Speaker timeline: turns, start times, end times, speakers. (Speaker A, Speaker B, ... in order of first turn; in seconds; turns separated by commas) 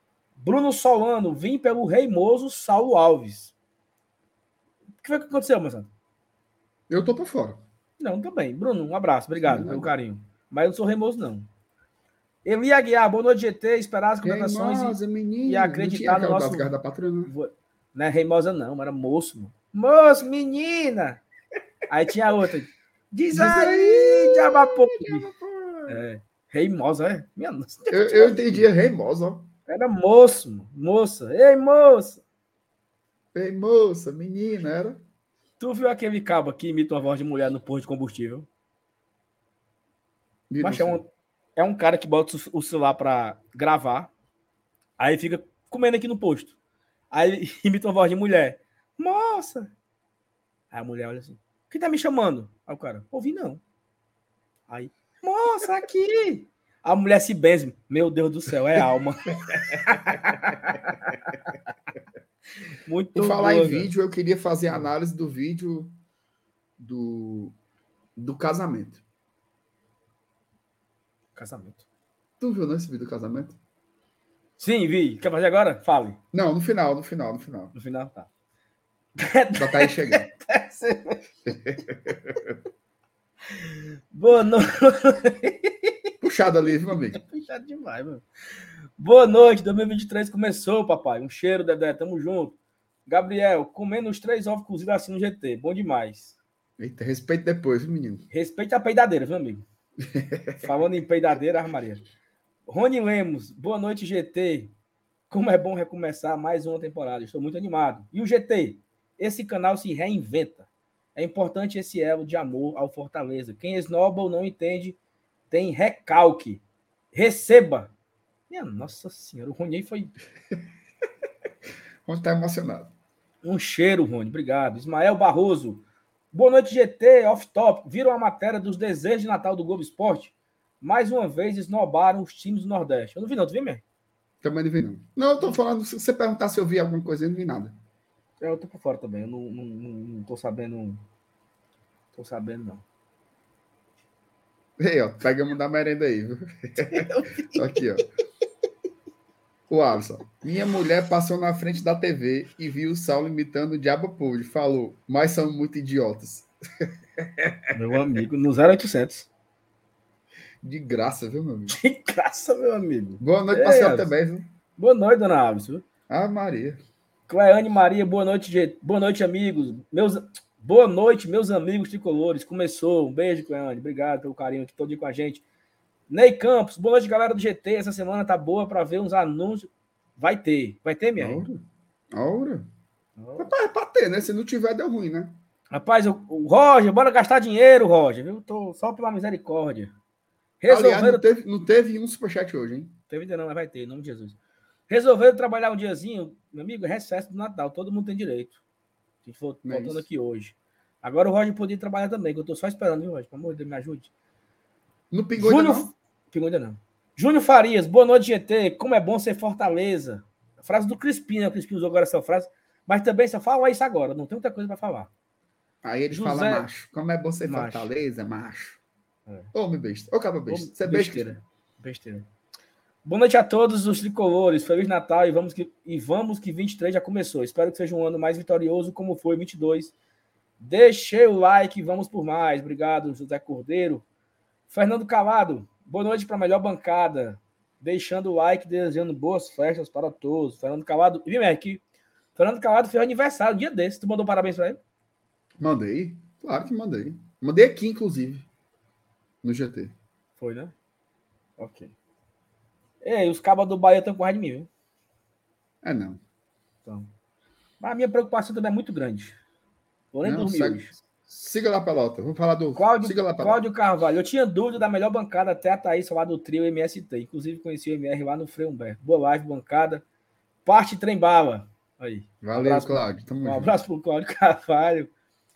Speaker A: 0.4-3.5, Speaker A: 5.0-5.9, Speaker B: 6.9-7.6, Speaker A: 8.0-11.5, Speaker B: 9.5-9.9, Speaker A: 12.4-16.7, Speaker B: 14.2-17.3, Speaker A: 17.3-21.2, Speaker A: 21.9-25.3, Speaker B: 23.3-26.0, Speaker A: 25.9-28.6, Speaker B: 27.9-29.5, Speaker A: 29.7-32.2, Speaker B: 33.3-35.0, Speaker A: 35.6-38.5, Speaker B: 40.5-41.0, Speaker A: 40.6-44.1, Speaker A: 45.0-46.5, Speaker A: 47.1-49.7, Speaker A: 50.7-53.6, Speaker A: 54.7-61.2, Speaker A: 62.9-63.9, Speaker B: 63.1-65.9, Speaker B: 66.8-67.5, Speaker B: 68.2-69.0, Speaker A: 71.4-71.8, Speaker B: 72.4-73.6, Speaker A: 74.6-76.2, Speaker B: 76.3-77.7, Speaker A: 77.8-78.3, Speaker A: 79.2-81.2, Speaker B: 79.6-80.3, Speaker B: 81.5-82.5, Speaker A: 83.7-86.0, Speaker B: 86.2-87.2, Speaker A: 87.1-88.2, Speaker A: 89.0-96.4, Speaker B: 96.8-98.2, Speaker A: 98.3-99.7, Speaker B: 100.0-100.6, Speaker A: 100.6-102.0, Speaker A: 102.7-104.7, Speaker A: 105.3-115.0, Speaker A: 115.5-116.6, Speaker A: 117.1-117.9, Speaker A: 118.5-120.1, Speaker B: 122.1-122.9, Speaker A: 123.4-133.8, Speaker B: 134.4-137.8, Speaker A: 138.4-141.0, Speaker A: 142.1-142.8, Speaker B: 144.8-148.1, Speaker A: 146.9-147.7, Speaker B: 149.7-157.6, Speaker A: 157.7-159.3, Speaker B: 160.6-161.8, Speaker A: 161.7-164.1, Speaker B: 163.2-164.5, Speaker A: 164.8-165.8, Speaker B: 166.1-166.8, Speaker A: 167.3-175.4, Speaker A: 176.1-181.5, Speaker B: 181.2-182.7, Speaker A: 183.2-183.5, Speaker B: 183.4-185.4, Speaker A: 185.7-189.9, Speaker A: 190.6-191.3, Speaker B: 190.7-192.9, Speaker A: 193.1-194.4, Speaker A: 194.9-198.6, Speaker A: 199.2-204.1, Speaker B: 199.7-200.1, Speaker B: 205.1-205.9, Speaker A: 205.4-215.1, Speaker B: 215.8-218.8, Speaker A: 216.1-216.7, Speaker A: 217.5-217.9, Speaker B: 219.5-221.3, Speaker A: 220.5-222.3, Speaker A: 223.1-229.9, Speaker A: 230.6-234.1, Speaker A: 234.7-241.8, Speaker A: 242.4-244.8, Speaker B: 245.6-248.5, Speaker B: 249.4-249.9, Speaker A: 250.4-250.7, Speaker A: 251.6-251.9, Speaker A: 253.0-254.7, Speaker B: 255.8-256.2, Speaker A: 257.8-259.4, Speaker A: 260.1-260.9, Speaker B: 260.2-263.6, Speaker A: 262.8-270.0, Speaker A: 270.6-275.1, Speaker B: 272.4-273.8